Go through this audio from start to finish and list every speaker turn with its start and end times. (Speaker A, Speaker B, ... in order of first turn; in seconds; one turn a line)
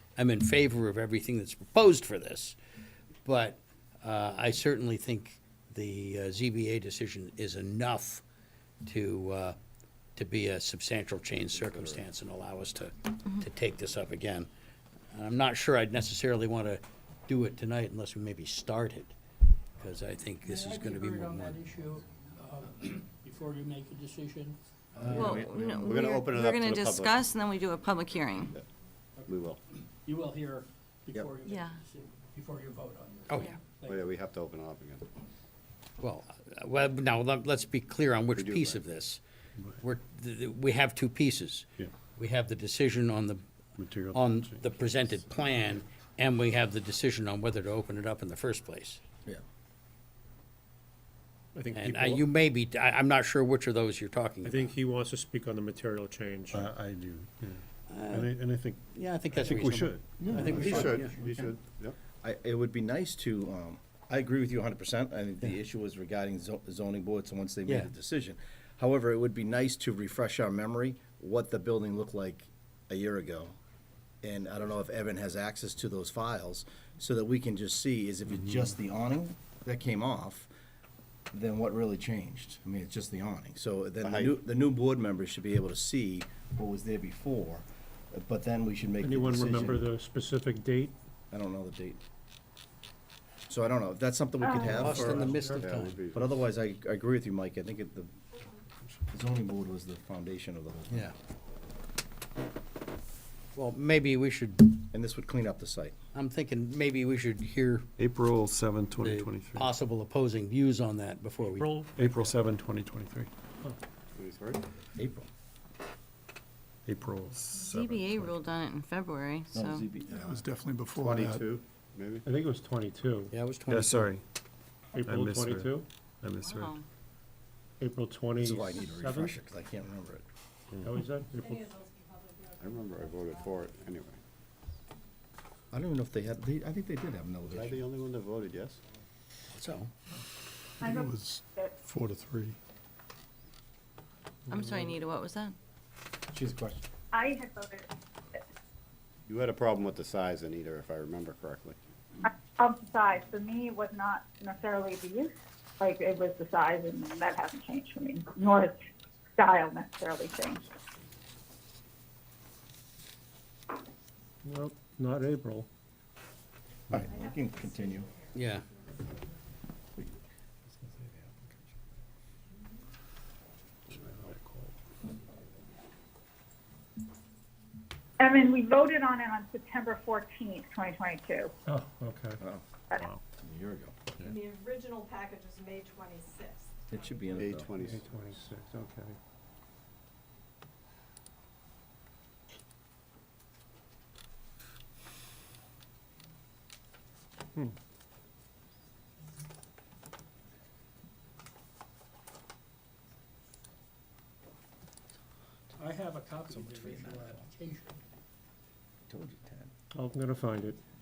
Speaker A: 0.2-2.6
Speaker A: 3.2-8.2
Speaker A: 8.8-9.6
Speaker A: 10.2-14.5
Speaker B: 11.5-12.1
Speaker A: 15.1-19.1
Speaker A: 19.8-21.6
Speaker C: 20.4-25.4
Speaker D: 25.0-26.1
Speaker E: 25.1-28.5
Speaker B: 25.8-27.3
Speaker C: 29.2-34.1
Speaker B: 29.3-29.6
Speaker E: 31.4-31.8
Speaker E: 33.3-33.6
Speaker B: 33.8-35.1
Speaker A: 36.0-39.2
Speaker B: 38.3-38.8
Speaker A: 39.8-43.4
Speaker F: 43.8-44.5
Speaker A: 44.1-49.0
Speaker G: 51.5-52.2
Speaker A: 51.7-54.7
Speaker G: 54.4-56.8
Speaker F: 56.5-58.8
Speaker A: 57.9-61.2
Speaker G: 59.4-60.0
Speaker F: 59.5-60.6
Speaker D: 60.2-60.7
Speaker C: 60.3-61.5
Speaker B: 60.6-62.0
Speaker D: 62.2-73.6
Speaker D: 74.2-80.5
Speaker D: 81.3-89.9
Speaker B: 84.0-84.4
Speaker G: 89.0-90.9
Speaker D: 91.3-92.0
Speaker D: 93.5-95.5
Speaker H: 94.4-94.9
Speaker A: 94.7-96.0
Speaker G: 94.8-95.5
Speaker B: 95.4-96.5
Speaker D: 96.1-98.1
Speaker D: 99.1-101.1
Speaker A: 100.9-101.2
Speaker A: 103.5-104.8
Speaker D: 104.9-106.0
Speaker A: 106.1-107.9
Speaker F: 108.0-109.7
Speaker A: 109.0-111.7
Speaker G: 111.4-111.9
Speaker F: 112.0-113.3
Speaker B: 114.2-114.6
Speaker D: 115.0-115.3
Speaker F: 116.9-118.3
Speaker E: 117.5-119.9
Speaker D: 119.5-120.5
Speaker I: 120.1-121.5
Speaker B: 121.0-122.3
Speaker G: 122.2-123.3
Speaker A: 123.3-124.1
Speaker F: 123.7-124.2
Speaker G: 124.9-125.9
Speaker F: 125.0-126.8
Speaker E: 126.4-126.8
Speaker G: 127.8-129.4
Speaker D: 128.4-130.3
Speaker G: 130.8-131.7
Speaker J: 131.4-133.7
Speaker B: 132.6-134.2
Speaker D: 135.7-137.8
Speaker B: 137.5-138.8
Speaker A: 139.5-139.9
Speaker H: 140.8-141.8
Speaker I: 140.9-142.6
Speaker G: 144.5-145.0
Speaker E: 144.5-145.6
Speaker D: 146.3-146.9
Speaker H: 147.1-147.9
Speaker B: 149.3-151.8
Speaker H: 152.2-158.8
Speaker H: 159.4-160.7
Speaker G: 164.4-165.7
Speaker D: 166.9-168.1
Speaker J: 167.1-169.0
Speaker A: 168.3-168.7
Speaker F: 173.9-174.7
Speaker H: 178.2-181.5
Speaker G: 181.7-182.4
Speaker D: 182.4-182.7
Speaker D: 183.4-184.0
Speaker J: 184.2-187.6
Speaker D: 186.9-187.7
Speaker B: 187.3-188.1
Speaker G: 187.8-189.2
Speaker C: 205.8-208.0
Speaker D: 206.5-207.5
Speaker D: 209.1-209.7
Speaker G: 209.9-210.8